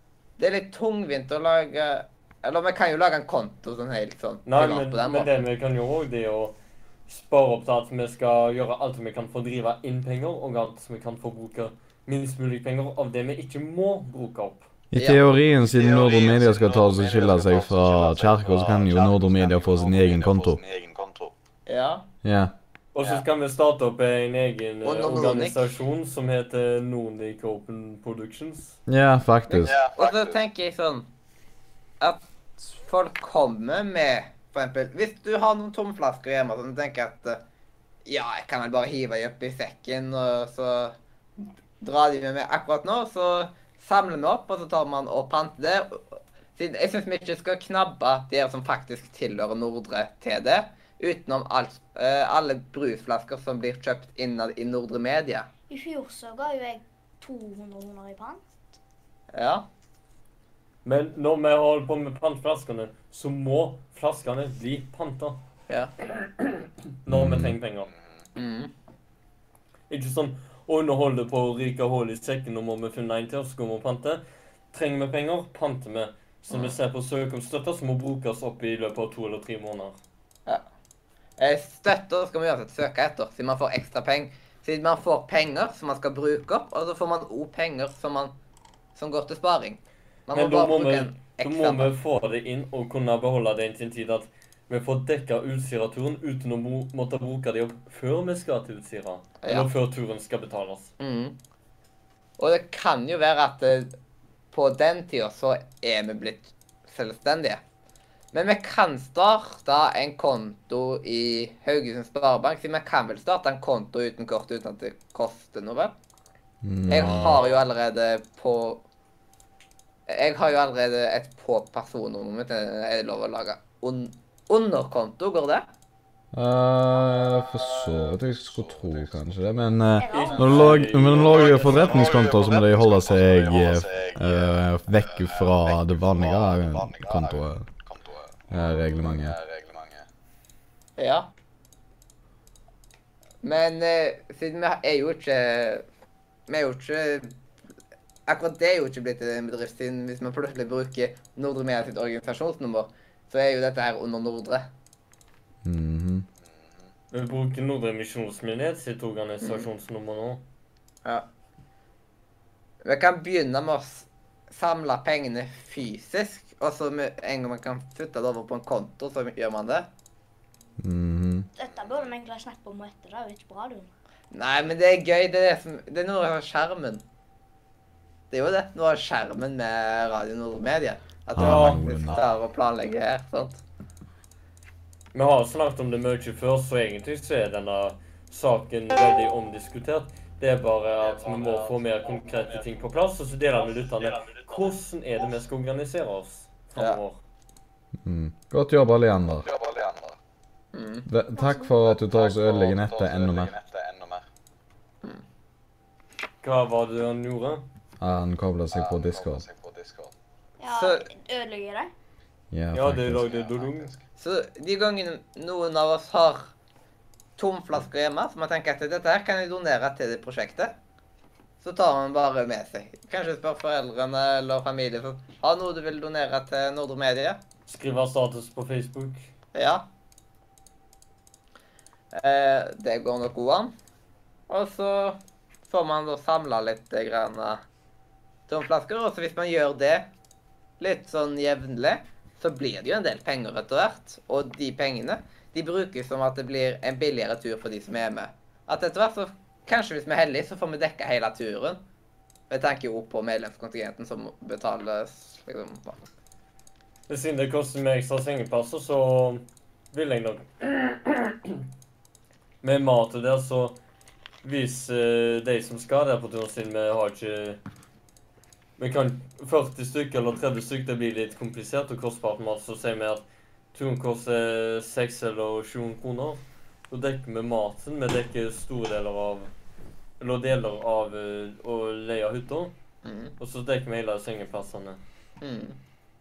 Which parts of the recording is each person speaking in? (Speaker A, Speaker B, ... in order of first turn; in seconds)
Speaker A: 0.4-5.3, 15.0-15.2, 21.7-22.0, 24.8-25.6, 29.5-31.1, 32.0-37.4, 38.1-41.0, 41.8-46.0, 46.6-55.5, 59.3-59.6, 68.4-68.7, 81.4-88.3, 89.0-91.9, 99.4-99.7, 101.0-101.4, 102.4-103.9, 104.5-107.6, 108.3-115.9, 116.9-118.8, 120.1-125.7, 141.0-141.3, 143.4-145.8, 146.5-147.3, 148.3-154.7, 159.4-159.7, 162.8-169.9, 174.3-177.0, 178.3-183.6, 200.7-201.1, 210.7-211.1, 214.2-216.5, 217.4-220.8, 221.6-227.4, 229.5-229.8, 232.1-233.7, 234.5-235.2, 235.7-237.6, 238.5-240.1, 240.8-251.8, 252.5-256.0, 283.0-283.4, 285.4-285.8
Speaker B: 4.5-6.6, 7.1-14.7, 22.9-28.8, 60.9-65.4, 67.0-67.9, 69.9-80.0, 90.3-100.9, 130.1-132.1, 157.1-160.4, 181.4-181.8, 185.1-197.2, 206.4-207.7, 212.7-213.9, 227.7-229.3, 257.1-261.6, 262.6-263.8, 264.4-267.6, 268.8-279.5, 280.2-282.7, 283.4-285.0
Speaker C: 14.9-20.6, 22.2-22.5, 28.9-29.8, 67.1-67.5, 116.6-117.4, 126.3-137.7, 138.5-139.4, 155.7-156.2, 170.8-171.5, 181.3-182.2, 198.0-199.4, 201.1-203.5, 208.0-209.4, 212.5-213.2
Speaker D: 15.7-21.3, 29.6-30.4, 68.0-68.2, 127.4-129.4, 130.3-140.1, 156.4-156.8, 171.7-172.1, 191.0-192.7, 194.2-194.6, 199.3-200.2, 201.8-204.2, 208.7-210.1, 213.2-214.0
Speaker E: 55.7-58.4, 130.0-130.8, 171.6-173.9, 201.3-201.7, 210.6-211.9